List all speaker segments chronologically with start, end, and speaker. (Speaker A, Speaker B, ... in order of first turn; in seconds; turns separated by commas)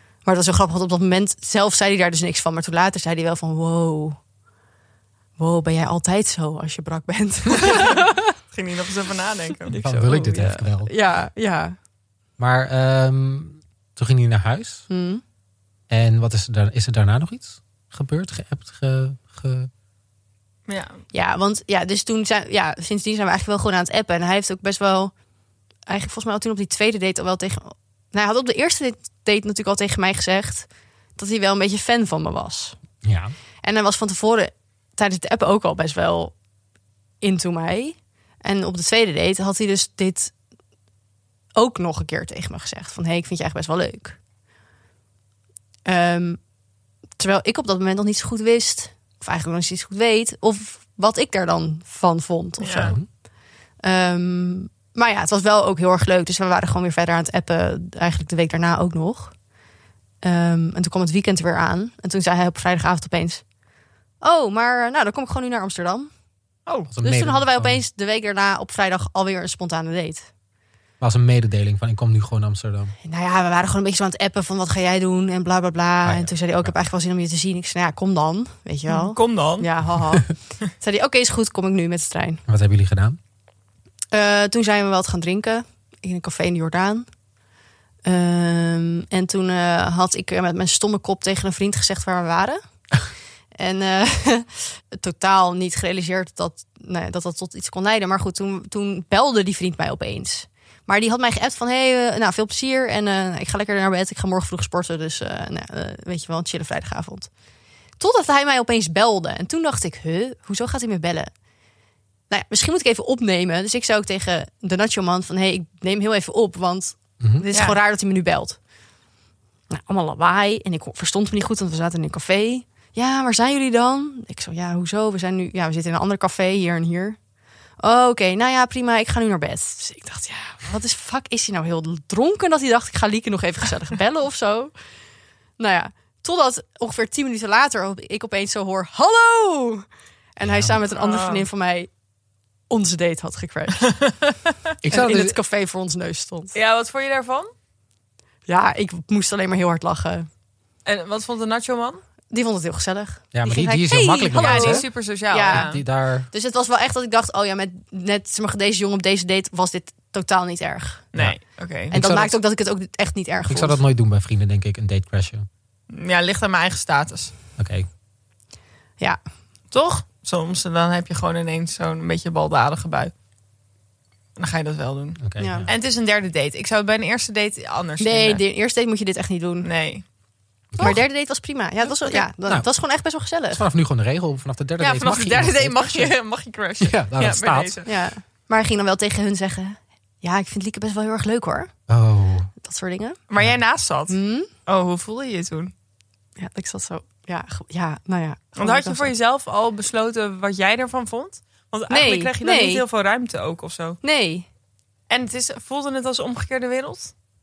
Speaker A: 0.2-4.2, Speaker A: 5.4-8.3, Speaker B: 7.7-9.8, Speaker A: 9.7-11.8, Speaker C: 9.8-10.9, Speaker C: 12.4-14.9, Speaker A: 14.9-15.2, Speaker C: 15.9-19.7, Speaker B: 20.7-21.0, Speaker A: 21.1-25.1, Speaker A: 25.9-32.8, Speaker C: 33.0-33.3, Speaker A: 33.6-36.3, Speaker A: 37.2-40.3, Speaker A: 41.6-44.2, Speaker A: 45.9-46.4, Speaker A: 47.2-53.0, Speaker B: 52.6-53.0, Speaker C: 52.8-53.1, Speaker A: 53.8-59.3, Speaker A: 60.2-63.4, Speaker A: 64.2-66.1, Speaker C: 66.9-67.8, Speaker A: 67.0-70.3, Speaker C: 71.0-72.9, Speaker A: 73.0-82.4, Speaker C: 76.0-76.7, Speaker B: 78.9-79.7, Speaker C: 82.5-83.2, Speaker A: 84.1-87.1, Speaker A: 88.0-92.6, Speaker A: 93.6-107.3, Speaker A: 108.0-111.3, Speaker A: 112.3-118.6, Speaker B: 117.5-117.8, Speaker A: 119.7-127.2, Speaker A: 127.8-134.7, Speaker A: 135.6-141.9, Speaker C: 140.4-140.8, Speaker B: 140.9-141.5, Speaker A: 142.7-144.0, Speaker C: 144.8-145.4, Speaker A: 144.9-146.6, Speaker B: 146.5-147.5, Speaker A: 148.5-150.3, Speaker B: 150.8-152.0, Speaker A: 152.3-155.7, Speaker C: 153.3-156.3, Speaker B: 154.3-155.8, Speaker A: 156.3-161.1, Speaker B: 161.1-162.0, Speaker A: 161.9-163.8, Speaker C: 161.9-162.3, Speaker C: 163.5-165.5, Speaker B: 165.9-167.3, Speaker C: 167.6-167.9, Speaker B: 169.7-173.1, Speaker B: 174.4-178.4, Speaker C: 175.2-175.7, Speaker A: 175.4-175.7, Speaker A: 178.0-179.7, Speaker B: 179.6-180.0, Speaker C: 180.7-181.0, Speaker A: 180.8-183.6, Speaker B: 181.9-182.2, Speaker C: 183.5-186.2, Speaker B: 184.8-187.9, Speaker C: 186.8-187.8, Speaker A: 187.9-191.7, Speaker C: 191.9-192.5, Speaker A: 192.6-193.2, Speaker B: 193.3-195.7, Speaker A: 194.1-194.5, Speaker A: 196.4-199.1, Speaker B: 198.6-204.0, Speaker A: 201.9-202.8, Speaker A: 204.0-204.5, Speaker B: 205.1-207.1